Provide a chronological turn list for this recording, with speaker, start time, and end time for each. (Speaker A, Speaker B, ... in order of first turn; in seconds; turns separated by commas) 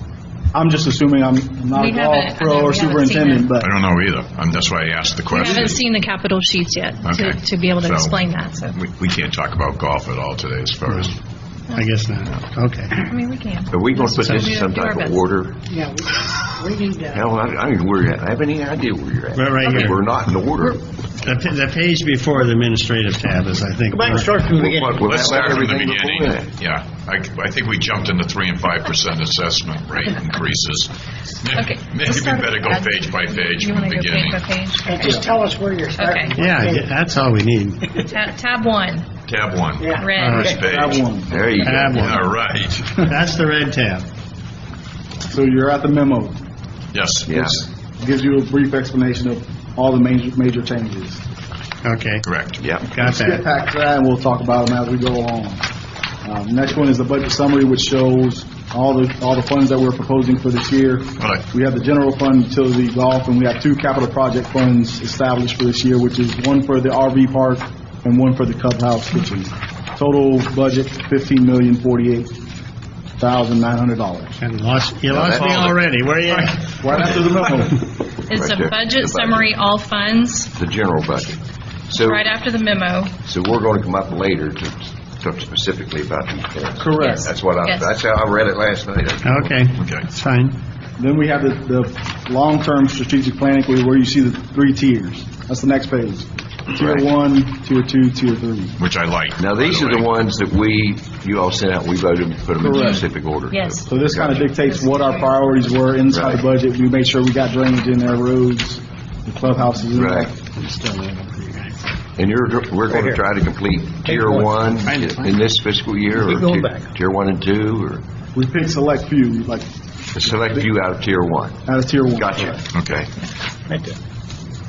Speaker A: 0.5-3.7, Speaker B: 1.7-3.5, Speaker C: 3.6-5.8, Speaker B: 5.3-8.8, Speaker C: 7.0-8.2, Speaker C: 8.7-11.2, Speaker D: 10.9-11.1, Speaker D: 11.7-13.1, Speaker B: 13.1-15.3, Speaker E: 13.7-15.6, Speaker F: 15.7-17.2, Speaker E: 17.1-20.8, Speaker D: 19.4-20.1, Speaker D: 21.2-24.5, Speaker F: 23.9-25.0, Speaker E: 24.4-26.5, Speaker C: 25.0-30.9, Speaker C: 31.4-34.4, Speaker B: 31.5-35.4, Speaker F: 35.2-35.9, Speaker B: 36.0-36.4, Speaker D: 36.4-38.0, Speaker F: 36.5-36.7, Speaker B: 38.0-39.1, Speaker C: 39.3-41.0, Speaker B: 40.0-40.5, Speaker D: 40.2-40.6, Speaker A: 40.5-41.7, Speaker E: 41.3-42.1, Speaker D: 41.6-42.4, Speaker C: 41.9-43.0, Speaker D: 42.9-44.1, Speaker A: 45.3-46.4, Speaker C: 46.9-47.6, Speaker E: 47.3-47.6, Speaker A: 48.0-51.2, Speaker D: 51.8-52.2, Speaker C: 52.2-52.6, Speaker D: 52.9-53.4, Speaker A: 52.9-55.7, Speaker A: 56.2-72.4, Speaker C: 61.2-61.5, Speaker A: 73.2-74.4, Speaker D: 74.4-76.7, Speaker E: 75.1-75.7, Speaker C: 75.2-75.8, Speaker A: 76.8-77.9, Speaker B: 78.2-80.5, Speaker E: 78.3-79.5, Speaker E: 80.5-81.4, Speaker E: 81.9-82.3, Speaker B: 81.9-83.1, Speaker E: 83.2-89.5, Speaker A: 86.8-87.3, Speaker B: 87.0-87.9, Speaker D: 89.2-90.6, Speaker C: 89.8-90.0, Speaker A: 91.0-98.8, Speaker C: 98.8-100.2, Speaker E: 99.4-104.5, Speaker A: 102.6-103.0, Speaker B: 102.6-103.9, Speaker A: 103.9-111.1, Speaker B: 104.8-105.3, Speaker E: 106.1-106.4, Speaker E: 110.0-110.3, Speaker E: 112.2-118.0, Speaker F: 112.9-113.2, Speaker F: 114.1-114.5, Speaker F: 116.2-116.8, Speaker A: 118.3-119.7, Speaker E: 120.2-121.6, Speaker A: 120.3-120.7, Speaker A: 121.7-122.6, Speaker E: 122.1-122.6, Speaker C: 122.7-123.1, Speaker F: 123.7-124.0